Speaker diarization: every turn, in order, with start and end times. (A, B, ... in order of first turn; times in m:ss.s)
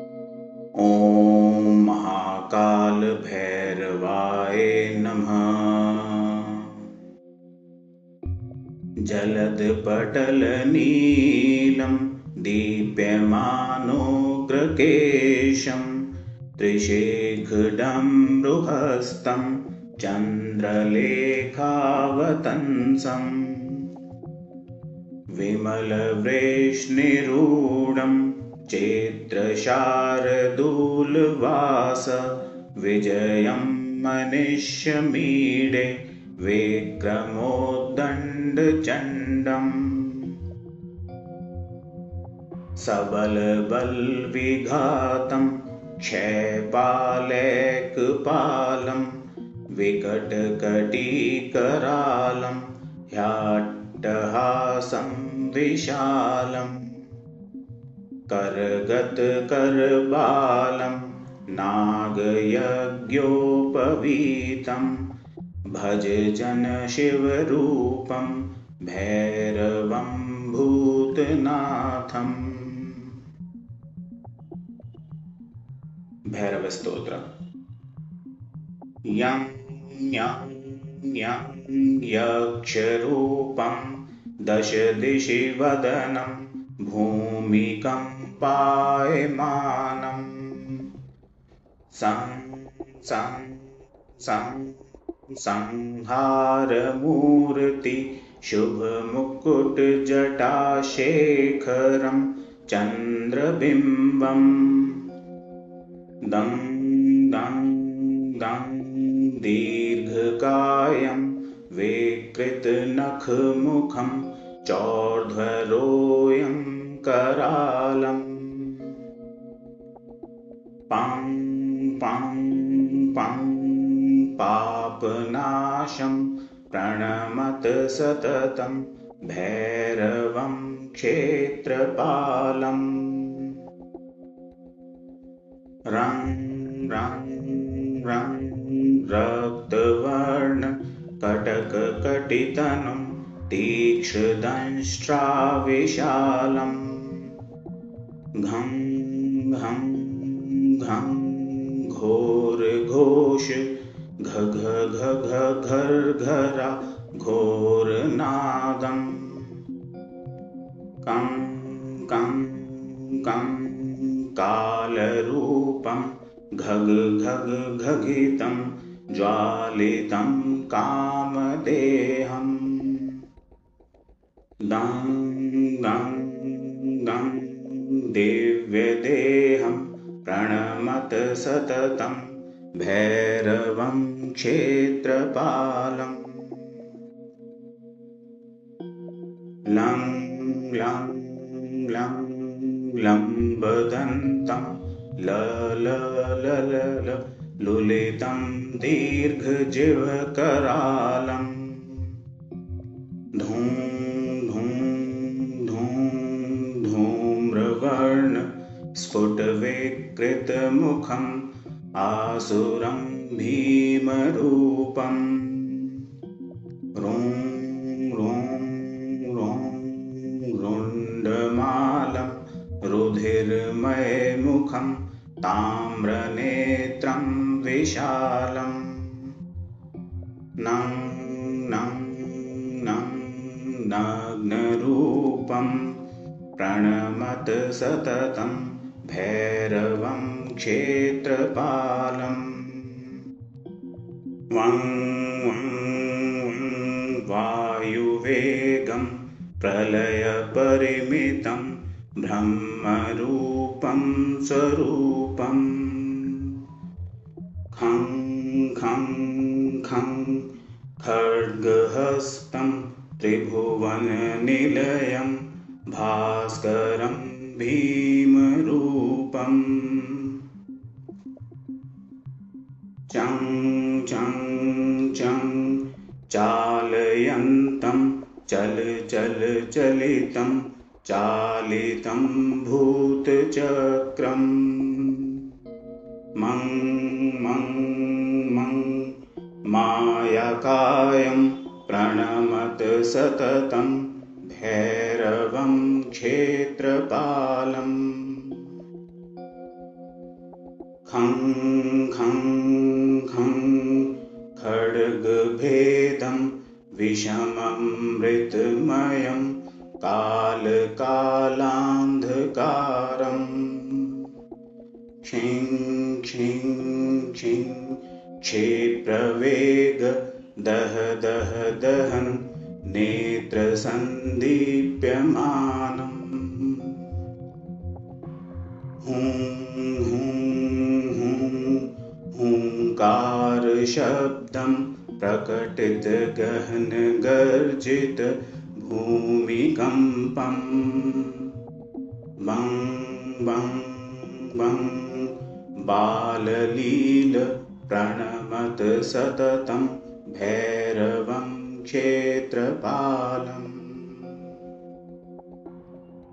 0:00.8-0:06.8 A
0:09.0-0:16.0 A
0:16.6-0:23.9 A
0:25.3-0:40.4 A
0:42.8-0:49.1 A
0:49.7-0:57.0 A
0:58.3-1:05.1 A
1:05.7-1:13.2 A
1:16.3-1:17.3 A
1:19.1-1:30.9 A
1:31.9-1:45.1 A
1:46.2-1:59.0 A
2:00.9-2:13.6 A
2:15.9-2:27.4 A
2:28.4-2:39.6 A
2:41.0-2:53.2 A
2:54.6-3:06.6 A
3:09.7-3:22.2 A
3:23.4-3:36.1 A
3:37.0-3:49.3 A
3:50.6-3:56.0 A
3:56.6-4:03.2 A
4:04.5-4:16.6 A
4:17.7-4:30.4 A
4:33.1-4:45.4 A
4:46.4-4:49.2 A
4:49.7-4:58.7 A
5:01.1-5:14.3 A
5:15.2-5:27.1 A
5:29.0-5:41.5 A
5:42.4-5:54.4 A